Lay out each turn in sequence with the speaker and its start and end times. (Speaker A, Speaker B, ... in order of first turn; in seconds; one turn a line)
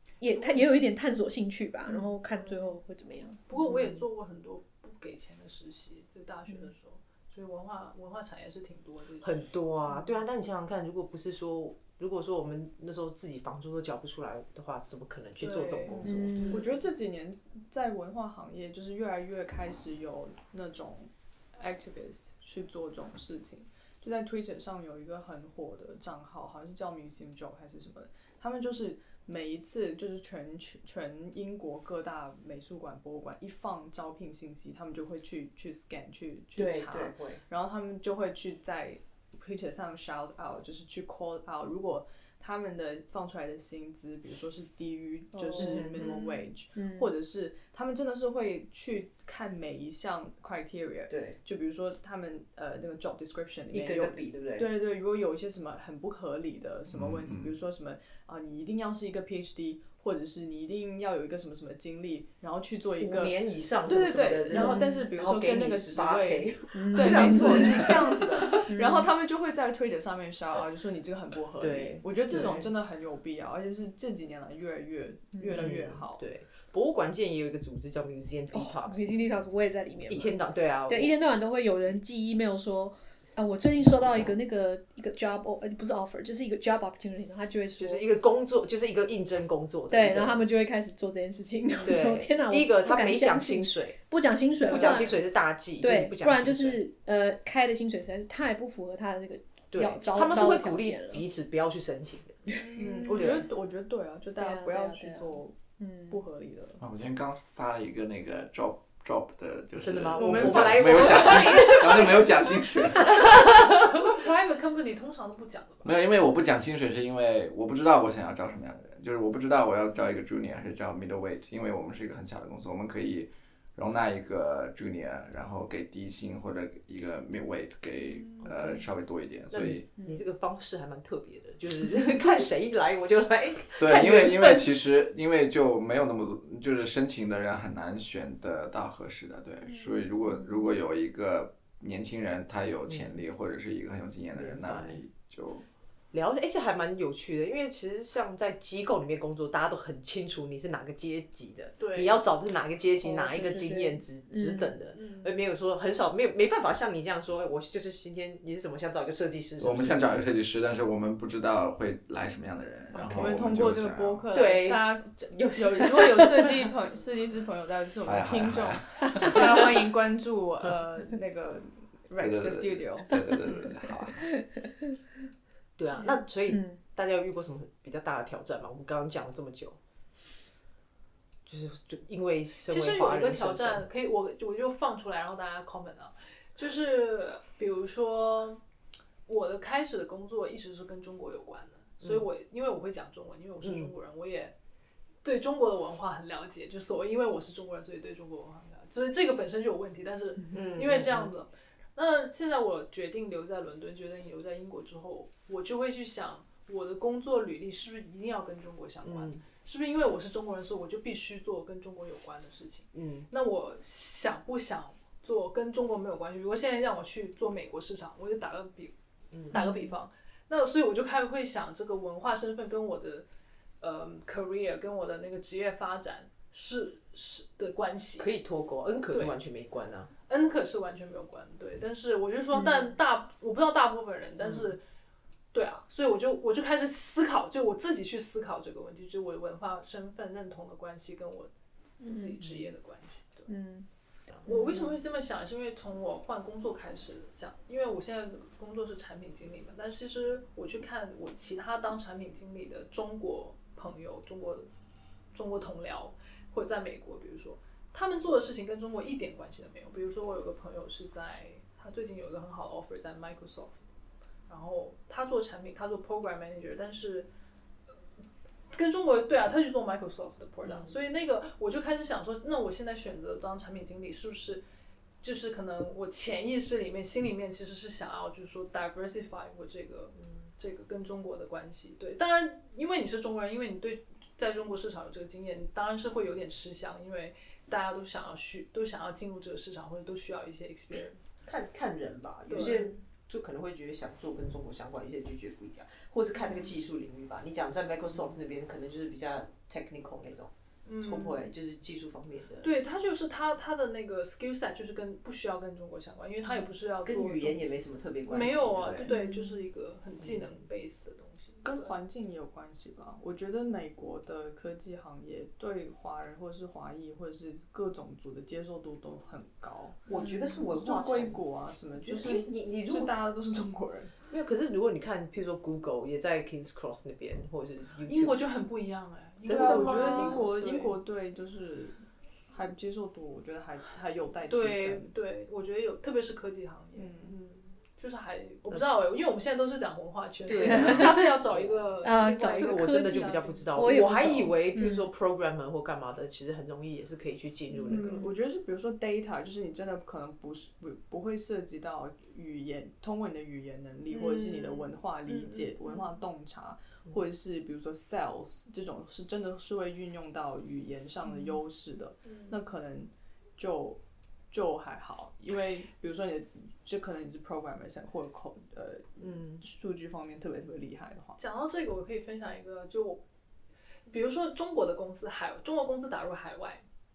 Speaker A: 0.2-3.6
Speaker B: 0.3-0.8
Speaker B: 3.5-9.3
Speaker C: 9.2-16.6
Speaker B: 15.4-16.8
Speaker A: 16.0-16.6
Speaker D: 16.5-76.2
Speaker C: 36.5-37.4
Speaker A: 45.3-47.1
Speaker C: 45.6-46.3
Speaker C: 51.1-51.4
Speaker C: 53.7-54.7
Speaker E: 56.9-57.6
Speaker C: 63.0-68.7
Speaker A: 64.5-65.0
Speaker A: 66.7-68.0
Speaker A: 68.7-69.1
Speaker C: 71.6-72.7
Speaker A: 75.3-75.8
Speaker C: 75.5-79.2
Speaker A: 78.5-88.0
Speaker C: 80.1-81.2
Speaker C: 87.8-90.4
Speaker A: 89.9-95.2
Speaker C: 91.8-94.0
Speaker C: 94.6-96.8
Speaker D: 94.7-95.0
Speaker A: 95.8-101.2
Speaker C: 99.7-103.5
Speaker A: 102.6-103.4
Speaker D: 102.8-105.6
Speaker A: 104.4-106.2
Speaker D: 106.1-106.8
Speaker E: 106.8-113.5
Speaker C: 109.8-113.4
Speaker D: 110.2-111.7
Speaker B: 113.4-115.9
Speaker E: 115.8-129.9
Speaker C: 128.4-128.8
Speaker C: 129.5-134.7
Speaker E: 133.8-145.7
Speaker C: 142.9-143.2
Speaker C: 144.3-145.0
Speaker C: 146.1-160.0
Speaker B: 151.8-152.2
Speaker A: 153.0-154.8
Speaker B: 154.9-155.4
Speaker E: 159.6-164.3
Speaker C: 162.9-163.4
Speaker D: 163.0-173.2
Speaker C: 164.3-166.7
Speaker E: 168.1-169.6
Speaker E: 172.2-174.3
Speaker C: 173.4-173.8
Speaker C: 175.8-179.8
Speaker A: 176.5-176.8
Speaker C: 181.5-183.8
Speaker B: 182.7-188.6
Speaker B: 189.3-194.5
Speaker C: 193.6-193.9
Speaker B: 195.2-218.9
Speaker C: 200.5-201.3
Speaker C: 209.0-209.5
Speaker C: 212.9-213.3
Speaker C: 219.3-219.6
Speaker B: 219.5-223.3
Speaker A: 219.5-220.0
Speaker B: 223.8-228.3
Speaker C: 228.2-230.1
Speaker B: 229.1-229.4
Speaker B: 230.3-234.8
Speaker C: 234.4-234.7
Speaker B: 235.5-241.5
Speaker B: 242.0-243.5
Speaker A: 242.1-242.5
Speaker A: 243.5-243.9
Speaker C: 244.4-244.9
Speaker B: 244.5-254.7
Speaker B: 255.3-263.8
Speaker B: 264.5-267.3
Speaker B: 268.7-274.6
Speaker C: 270.7-270.9
Speaker B: 275.2-291.2
Speaker C: 291.4-302.7
Speaker B: 292.5-293.0
Speaker B: 300.9-301.5
Speaker B: 302.6-307.7
Speaker C: 306.6-309.1
Speaker B: 308.2-311.9
Speaker A: 309.1-309.7
Speaker C: 310.2-310.5
Speaker D: 311.6-324.2
Speaker C: 320.1-321.4
Speaker C: 322.0-323.2
Speaker C: 324.3-328.4
Speaker B: 328.1-330.9
Speaker D: 329.4-332.0
Speaker C: 329.5-330.4
Speaker D: 332.5-335.1
Speaker B: 334.5-343.5
Speaker D: 336.9-337.4
Speaker C: 340.5-348.3
Speaker A: 340.6-341.4
Speaker A: 342.0-345.1
Speaker D: 347.9-371.4
Speaker B: 355.4-356.0
Speaker B: 362.2-362.6
Speaker C: 369.2-369.6
Speaker B: 371.4-373.2
Speaker B: 374.1-376.8